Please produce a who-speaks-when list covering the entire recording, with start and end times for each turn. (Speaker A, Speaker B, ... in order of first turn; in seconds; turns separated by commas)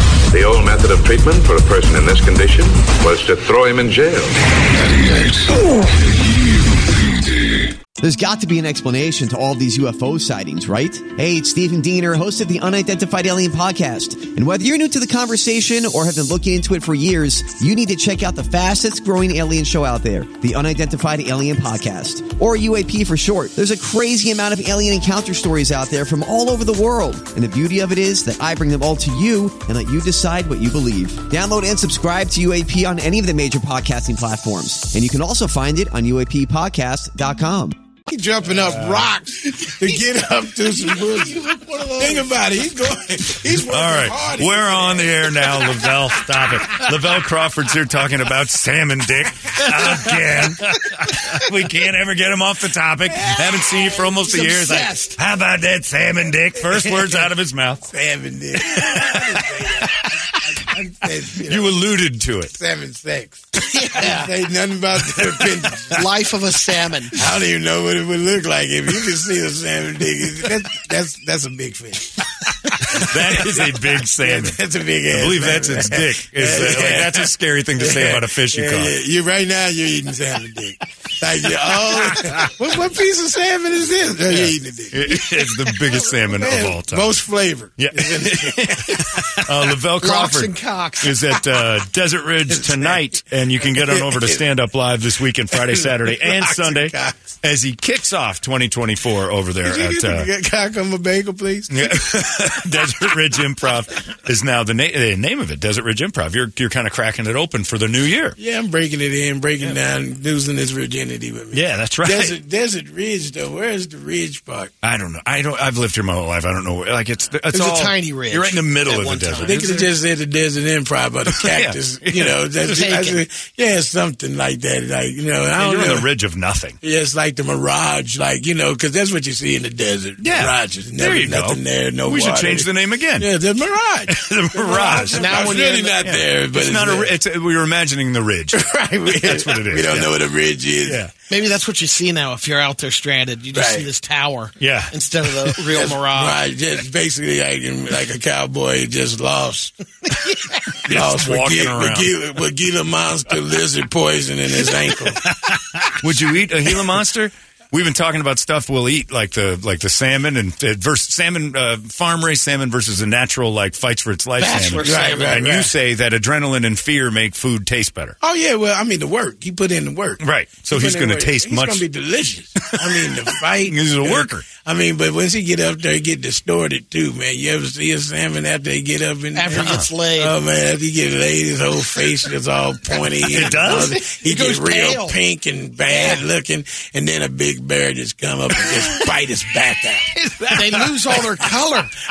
Speaker A: 0.3-4.3, Speaker B: 4.6-7.8, Speaker C: 8.0-37.8, Speaker D: 38.1-45.4, Speaker E: 38.6-39.1, Speaker F: 41.0-42.3, Speaker E: 43.7-57.9, Speaker F: 54.3-55.1, Speaker D: 56.7-57.2, Speaker D: 57.9-62.0, Speaker E: 58.6-59.2, Speaker E: 61.5-62.5, Speaker D: 62.5-66.0, Speaker F: 63.6-64.3, Speaker F: 65.9-67.2, Speaker D: 67.2-85.7, Speaker E: 72.9-78.9, Speaker E: 82.1-82.5, Speaker E: 84.3-87.1, Speaker D: 86.3-89.5, Speaker E: 87.8-100.3, Speaker F: 90.0-91.2, Speaker D: 92.5-93.0, Speaker D: 93.7-94.4, Speaker D: 95.5-97.3, Speaker D: 99.6-102.0, Speaker E: 101.7-108.3, Speaker D: 108.4-114.7, Speaker E: 111.5-112.3, Speaker E: 114.8-119.9, Speaker F: 117.5-119.7, Speaker D: 119.4-126.1, Speaker E: 121.3-122.4, Speaker F: 122.7-123.2, Speaker E: 125.6-126.8, Speaker D: 126.8-137.1, Speaker E: 130.2-133.3, Speaker E: 134.1-140.1, Speaker F: 134.9-136.0, Speaker D: 138.5-141.0, Speaker E: 140.8-141.1, Speaker F: 141.3-146.4, Speaker D: 143.5-143.9, Speaker E: 144.6-145.5, Speaker D: 145.7-149.7, Speaker D: 150.8-155.2, Speaker E: 150.9-152.1, Speaker E: 155.9-168.2, Speaker F: 164.4-165.5, Speaker D: 164.8-165.7, Speaker D: 168.2-190.1, Speaker E: 170.2-171.8, Speaker E: 172.7-174.4, Speaker F: 179.3-180.3, Speaker E: 183.2-184.0, Speaker F: 183.5-185.2, Speaker F: 185.8-186.2, Speaker F: 190.2-191.9, Speaker E: 190.5-191.1